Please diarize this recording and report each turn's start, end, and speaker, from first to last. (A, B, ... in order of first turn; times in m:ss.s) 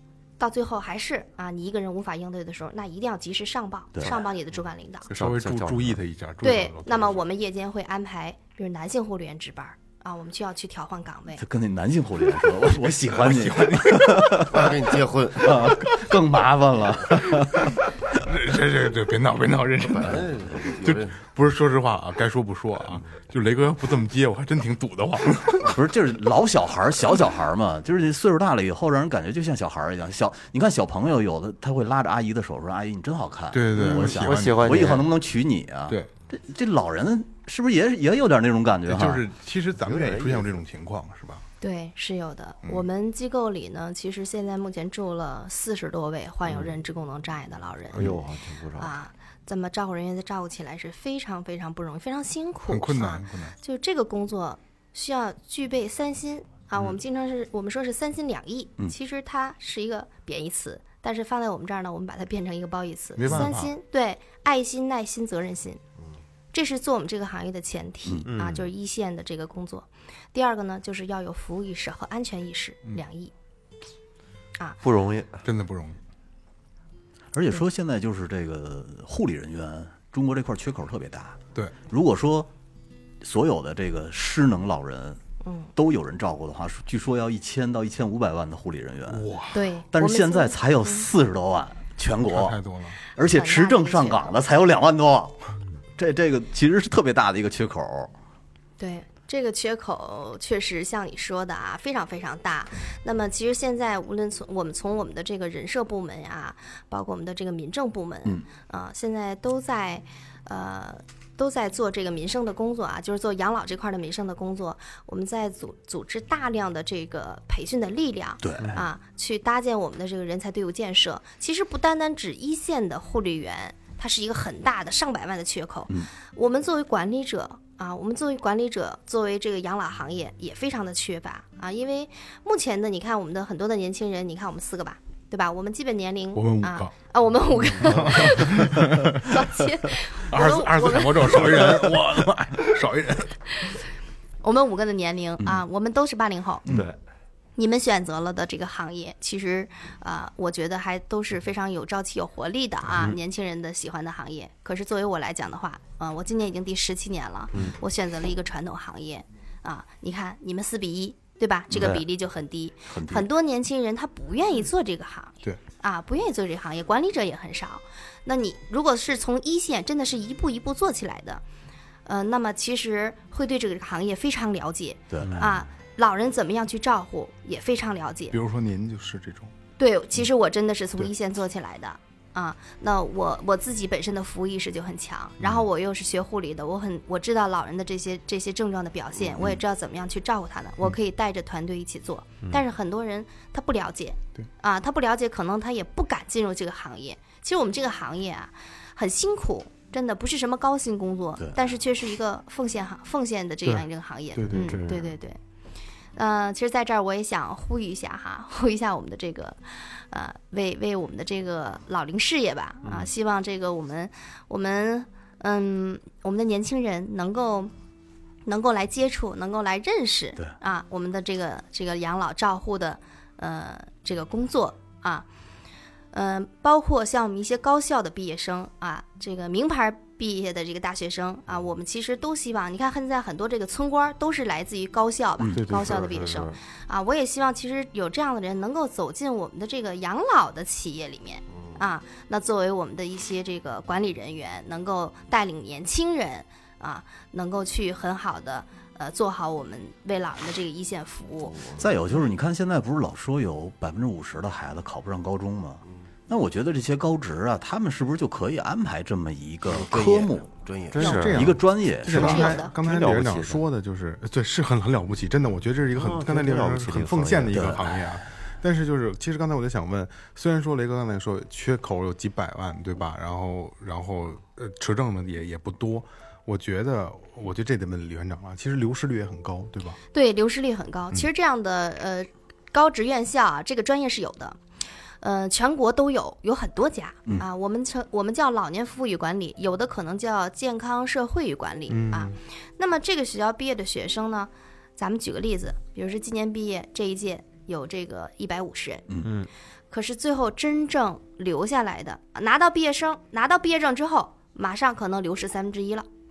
0:00.4-0:05.1 A
0:05.1-0:07.2 B
0:05.1-0:06.0 C
0:06.4-0:11.4 A
0:11.4-0:14.7 D
0:13.1-0:14.6 B
0:14.5-0:15.7 E
0:15.4-0:17.7 D
0:17.2-0:20.3 B
0:20.0-0:21.1 E
0:20.8-0:25.8 B
0:25.6-0:39.2 D
0:33.5-0:35.0 B
0:33.8-0:35.1 C
0:38.9-0:41.4 B
0:39.8-0:40.5 C
0:41.6-0:48.1 A
0:47.9-0:49.0 C
0:48.8-1:05.8 A
0:52.7-0:53.5 B
1:03.2-1:03.7 B
1:06.5-1:13.3 A
1:08.2-1:08.7 C
1:14.8-1:15.4 C
1:15.4-1:16.0 B
1:17.3-1:22.5 D
1:23.2-1:25.2 D
1:25.4-1:25.7 A
1:25.7-1:29.3 D
1:29.1-1:29.6 B
1:29.5-1:31.1 A
1:29.9-1:32.6 D
1:32.3-1:33.0 B
1:33.2-1:35.4 D
1:33.2-1:34.3 A
1:36.0-1:38.1 D
1:38.8-2:22.0 A
1:58.4-1:58.8 D
2:16.3-2:16.9 B
2:17.7-2:19.4 B
2:20.2-2:23.4 B
2:24.4-2:26.6 A
2:26.6-2:27.0 C
2:27.6-2:51.4 A
2:41.7-2:42.0 C
2:42.9-2:43.3 D
2:52.0-2:58.4 A
2:55.1-2:55.5 D
2:55.2-2:55.6 C
2:58.3-2:59.5 B
2:59.8-3:25.4 A
3:23.7-3:24.8 B
3:24.5-3:25.2 C
3:26.1-3:37.7 A
3:38.4-3:45.3 A
3:46.1-4:11.6 A
3:55.5-3:56.6 C
3:55.6-3:55.9 B
4:01.5-4:01.8 E
4:11.5-4:11.9 E
4:11.8-4:20.5 D
4:19.7-4:21.2 E
4:20.9-4:23.6 C
4:21.0-4:40.0 B
4:21.0-4:22.6 D
4:22.1-4:22.7 A
4:25.9-4:28.0 C
4:27.5-4:27.9 D
4:40.1-4:44.6 A
4:45.2-4:59.0 A
4:51.9-4:52.4 B
4:59.2-4:59.5 C
4:59.9-5:06.1 A